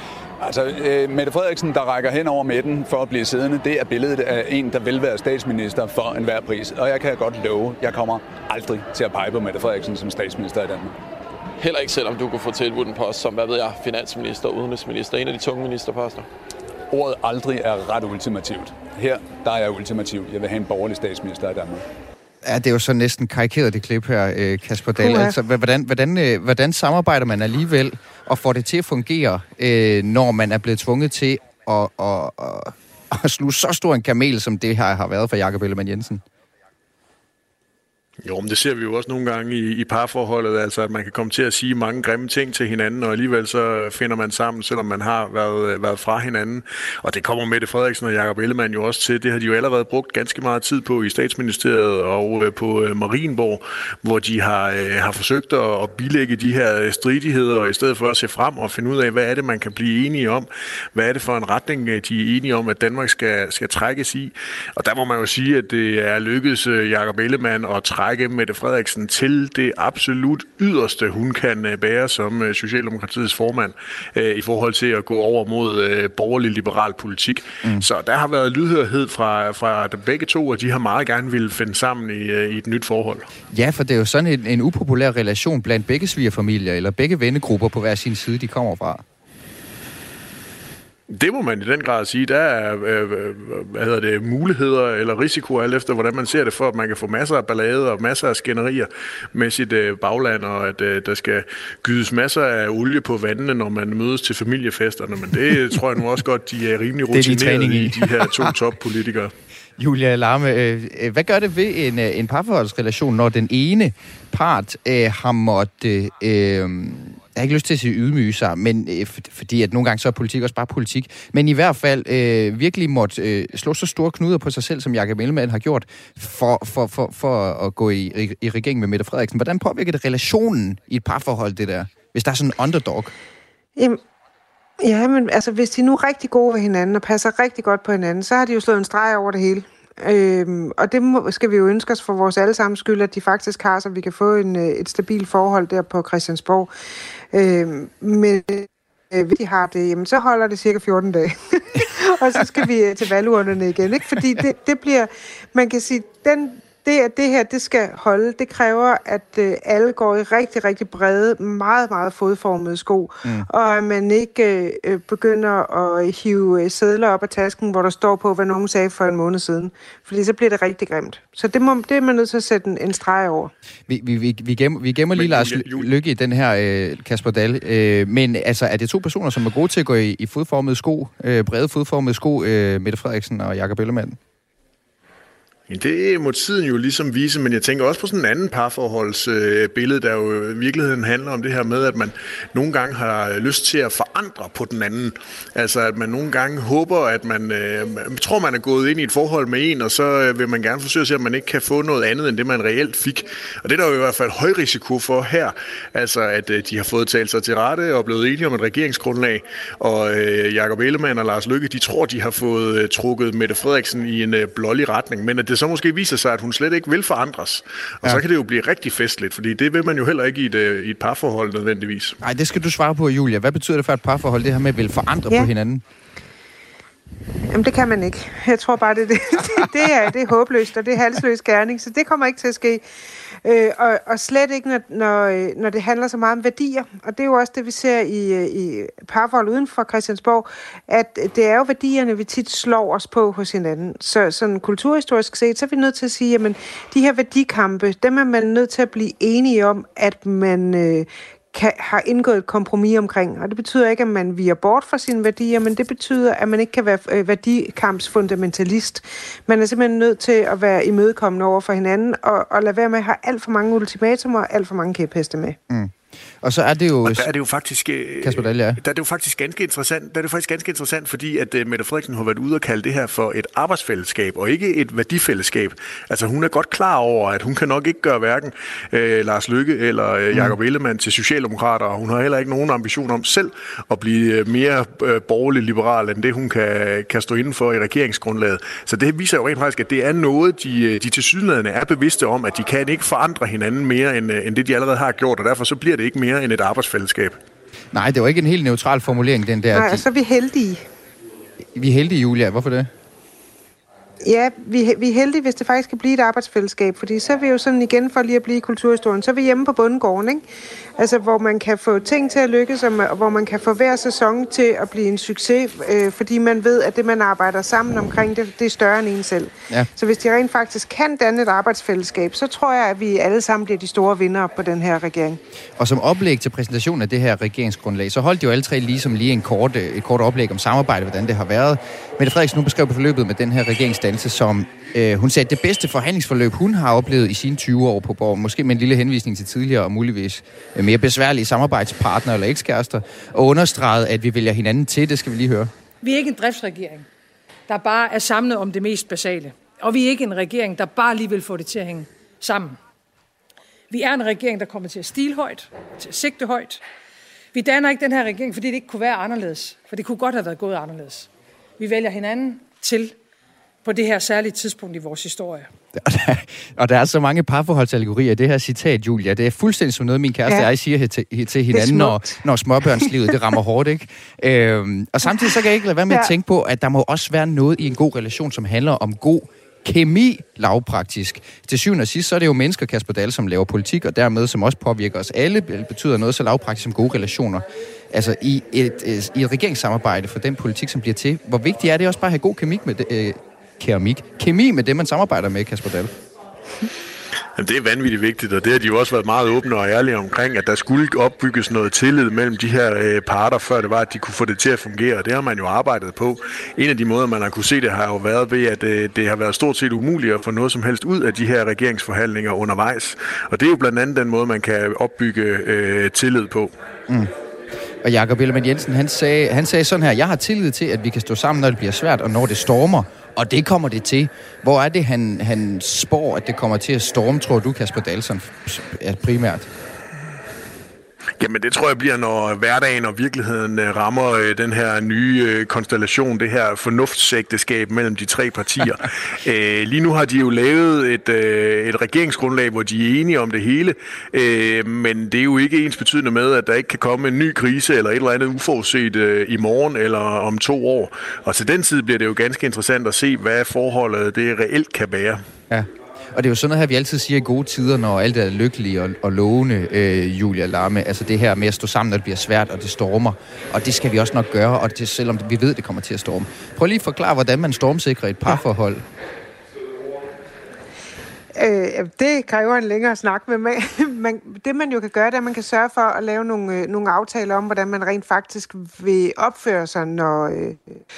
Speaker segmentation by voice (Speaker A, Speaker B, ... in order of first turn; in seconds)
Speaker A: 0.4-11.0, 16.9-21.9
Speaker B: 11.6-16.3
Speaker C: 22.4-36.2, 83.5-89.0, 107.1-108.5, 109.8-133.1, 173.9-184.2, 222.2-225.8, 265.7-267.3, 268.2-268.8, 297.9-300.0, 301.8-302.9, 325.8-345.7, 366.0-396.1, 418.0-429.7, 455.7-469.0
Speaker D: 25.0-25.4, 133.8-134.0, 134.8-146.7, 147.3-173.5, 227.5-232.8, 233.4-265.6, 299.7-300.8, 304.2-310.4, 311.0-325.4, 371.7-372.4, 375.3-375.5, 471.6-480.8
Speaker E: 38.2-83.3, 91.1-109.3, 175.1-175.9, 185.7-222.2, 267.0-297.4, 397.6-416.7, 431.4-455.4
Speaker F: 346.0-347.1, 347.7-352.8, 353.9-356.8, 357.5-363.1, 363.8-365.7